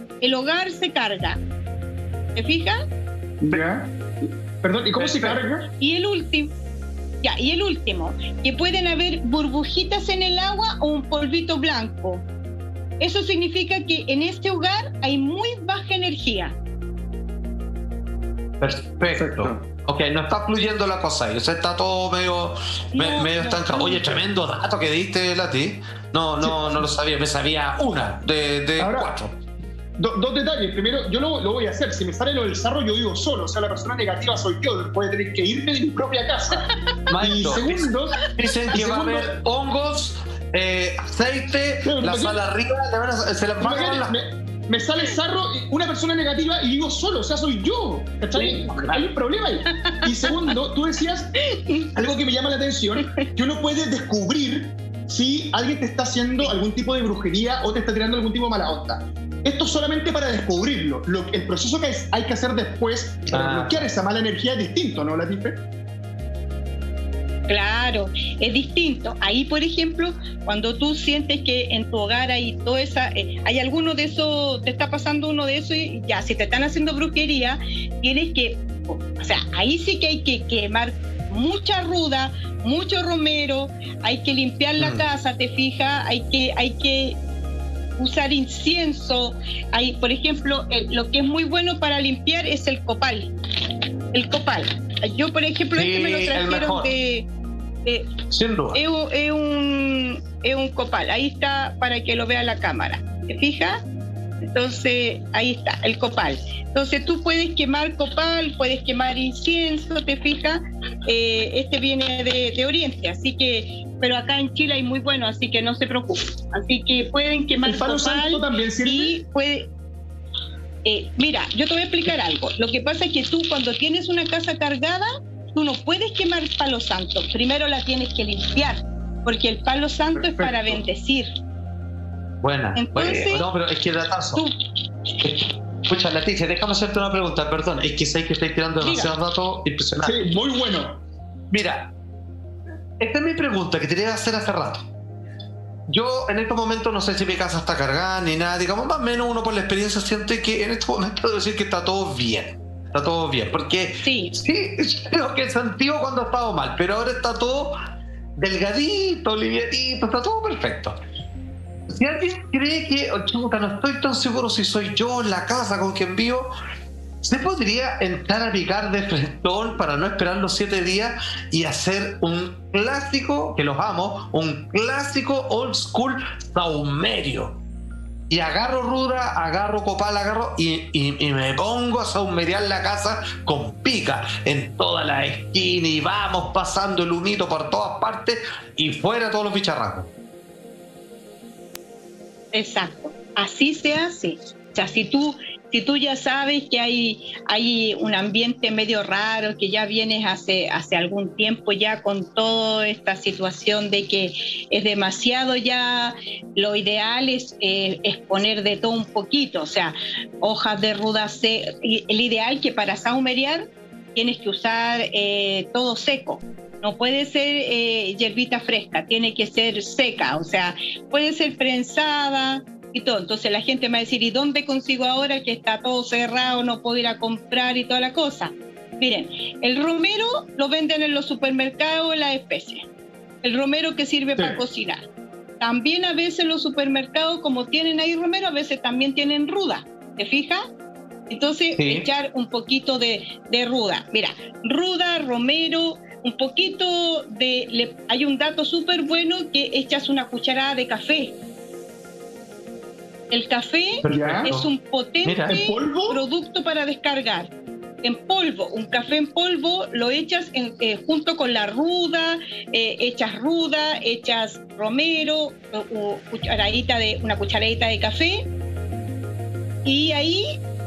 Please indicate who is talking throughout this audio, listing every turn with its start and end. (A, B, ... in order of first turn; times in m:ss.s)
0:00.2-0:01.4 A
0:02.4-0:02.8 A
0:03.4-0:05.7 B
0:05.0-0:05.4 C
0:05.8-0:06.5 A
0:07.2-0:12.2 A
0:13.0-0:16.6 A
0:18.6-0:29.4 C
0:19.1-0:19.6 B
0:22.9-0:24.1 A
0:26.4-0:26.9 B
0:28.8-0:29.1 B
0:30.0-0:36.6 B
0:36.7-0:37.2 A
0:37.1-0:44.2 C
0:37.2-0:39.4 B
0:41.8-0:42.4 B
0:43.6-0:51.3 B
0:48.3-0:49.1 C
0:49.7-0:50.5 A
0:51.4-0:51.9 A
0:52.0-1:05.6 B
0:53.0-0:53.2 A
1:03.3-1:03.9 C
1:07.5-1:27.2 A
1:24.8-1:25.1 C
1:28.0-1:33.3 A
1:34.1-1:37.3 A
1:35.8-1:37.0 C
1:37.9-1:38.1 A
1:38.3-1:38.8 C
1:38.7-1:43.8 A
1:44.5-1:59.7 A
1:57.6-1:59.2 B
2:00.8-2:11.3 A
2:10.1-2:10.8 B
2:12.4-2:14.4 C
2:12.8-2:13.5 A
2:15.2-2:20.2 C
2:18.8-2:19.1 A
2:20.0-2:21.0 B
2:21.5-2:21.9 C
2:23.0-2:24.9 C
2:25.9-2:37.7 C
2:34.0-2:34.3 A
2:38.4-2:41.0 C
2:41.9-2:46.5 C
2:47.2-2:57.6 C
2:58.3-3:10.1 C
3:12.5-3:52.8 A
3:53.4-3:55.0 A
3:55.6-4:00.6 A
4:01.3-4:11.4 A
4:01.8-4:02.1 C
4:13.3-4:17.5 A
4:14.0-4:14.7 C
4:14.1-4:14.5 B
4:15.2-4:15.6 C
4:15.5-4:16.2 B
4:18.0-4:28.4 A
4:29.8-4:30.4 A